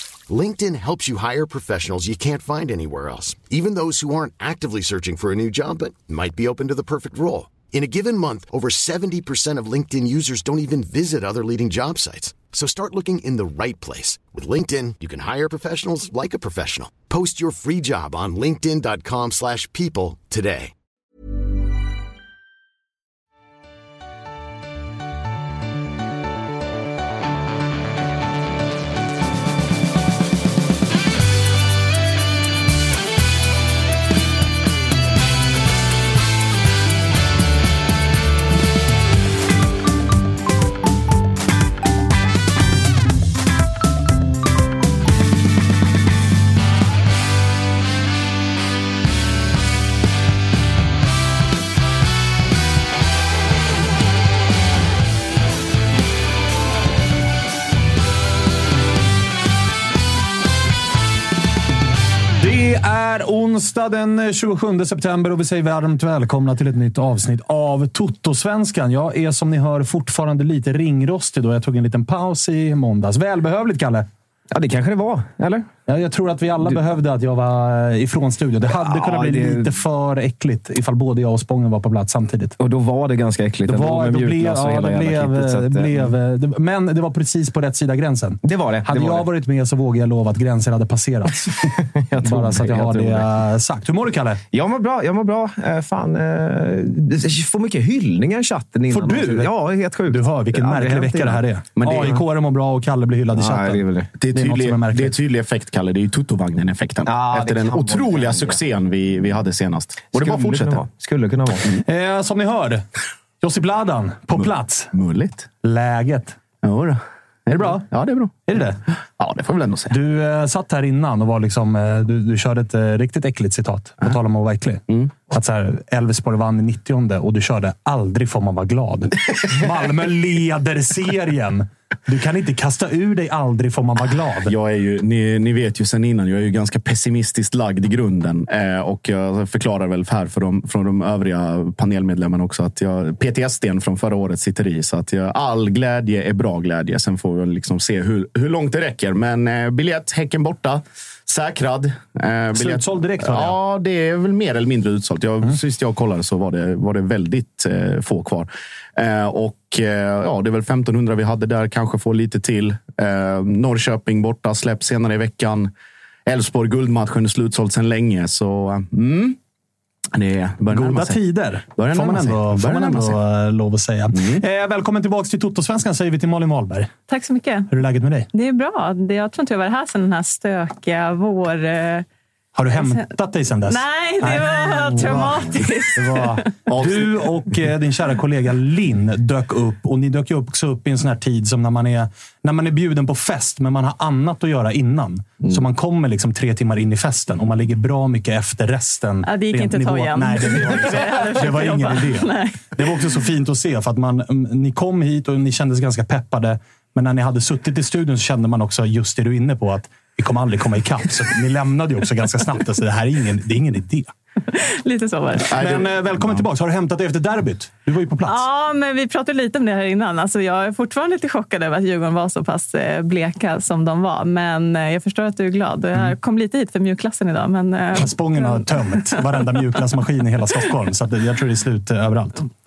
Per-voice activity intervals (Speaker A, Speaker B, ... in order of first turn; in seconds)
Speaker A: 0.3-20.7
Speaker B: 62.4-74.1, 75.9-82.5, 83.7-91.6, 92.2-94.4, 98.9-99.5, 100.1-105.1, 111.8-112.8, 113.4-114.9, 115.6-116.4, 118.5-118.8, 119.9-134.5, 152.5-153.6, 170.7-176.9, 177.7-178.3, 182.5-214.1, 215.5-218.4, 228.0-232.5
Speaker C: 74.5-75.7, 78.7-79.7, 82.6-86.1, 88.4-89.3, 91.6-93.3, 94.5-102.2, 103.3-104.1, 107.0-108.6, 110.2-111.8
Speaker D: 101.8-102.2, 104.2-110.9, 114.3-115.5, 116.6-118.4, 119.2-119.9, 124.9-125.1, 134.4-165.7, 166.2-169.4, 170.1-171.2, 171.8-173.2, 174.1-174.4, 186.7-187.1, 215.5-216.4
Speaker E: 177.1-177.7, 178.3-182.1, 182.7-183.1, 183.7-186.5, 199.2-202.9, 214.5-215.6, 218.2-229.6